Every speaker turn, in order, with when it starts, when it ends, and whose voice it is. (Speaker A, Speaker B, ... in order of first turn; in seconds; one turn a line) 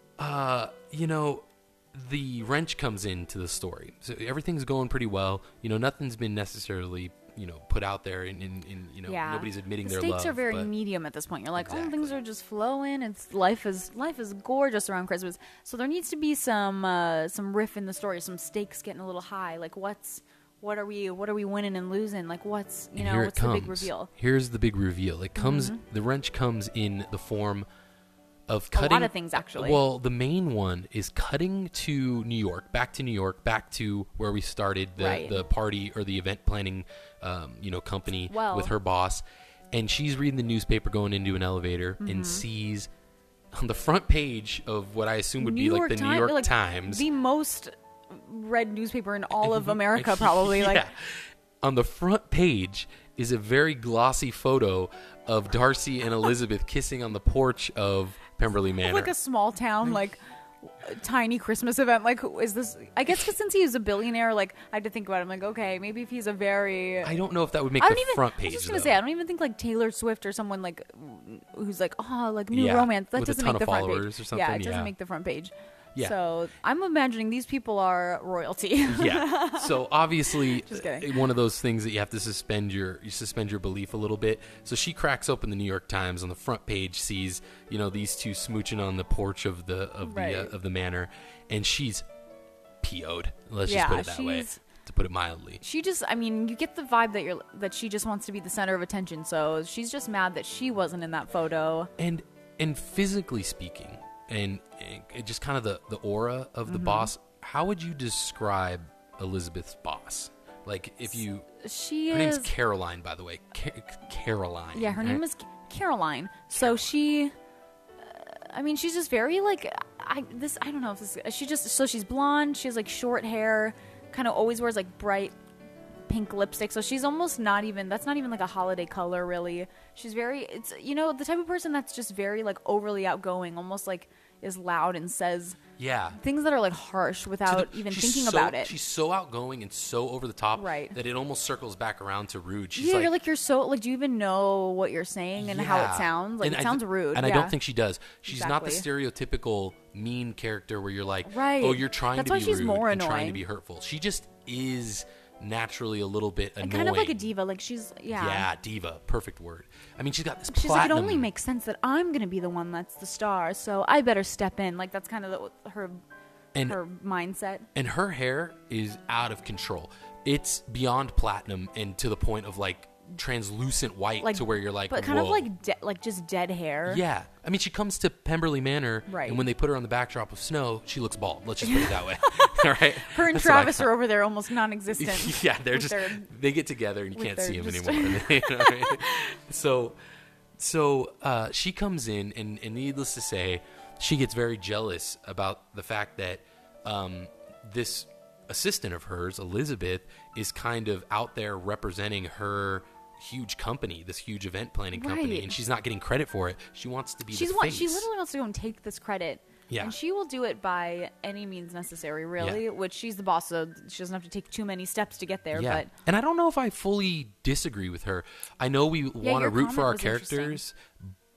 Speaker A: 0.2-10.7
Speaker B: 9.1-24.1
Speaker A: 11.6-12.2
Speaker A: 23.0-27.7
Speaker B: 25.4-25.8
Speaker A: 28.5-42.9
Speaker B: 28.7-29.8
Speaker B: 35.0-35.4
Speaker B: 38.3-38.7
Speaker B: 42.0-42.5
Speaker A: 43.5-47.1
Speaker B: 45.4-50.8
Speaker A: 49.4-59.1
Speaker B: 58.8-67.1
Speaker A: 67.0-69.0
Speaker B: 67.8-81.2
Speaker A: 72.5-74.9
Speaker A: 78.9-92.0
Speaker B: 90.0-90.5
Speaker A: 92.8-95.6
Speaker B: 93.7-94.6
Speaker B: 95.6-101.9
Speaker A: 102.0-111.5
Speaker B: 106.7-107.1
Speaker B: 111.6-112.5
Speaker A: 112.1-115.2
Speaker B: 114.7-117.3
Speaker A: 116.5-116.9
Speaker B: 118.0-125.3
Speaker B: 126.1-135.6
Speaker A: 135.8-136.2
Speaker B: 136.2-138.7
Speaker A: 137.5-143.1
Speaker B: 140.6-140.9
Speaker B: 142.8-147.6
Speaker A: 145.4-157.2
Speaker B: 148.3-148.9
Speaker B: 151.3-153.4
Speaker B: 156.6-158.5
Speaker A: 158.1-161.3
Speaker B: 160.5-166.0
Speaker B: 166.7-167.7
Speaker A: 167.8-175.5
Speaker B: 174.2-177.0
Speaker A: 176.9-183.9
Speaker B: 179.1-179.5
Speaker B: 181.6-186.3
Speaker A: 184.9-190.0
Speaker B: 187.2-189.4
Speaker A: 190.6-208.1
Speaker B: 204.9-205.6
Speaker B: 207.3-215.9
Speaker A: 209.7-210.0
Speaker A: 215.5-221.2
Speaker B: 219.2-220.6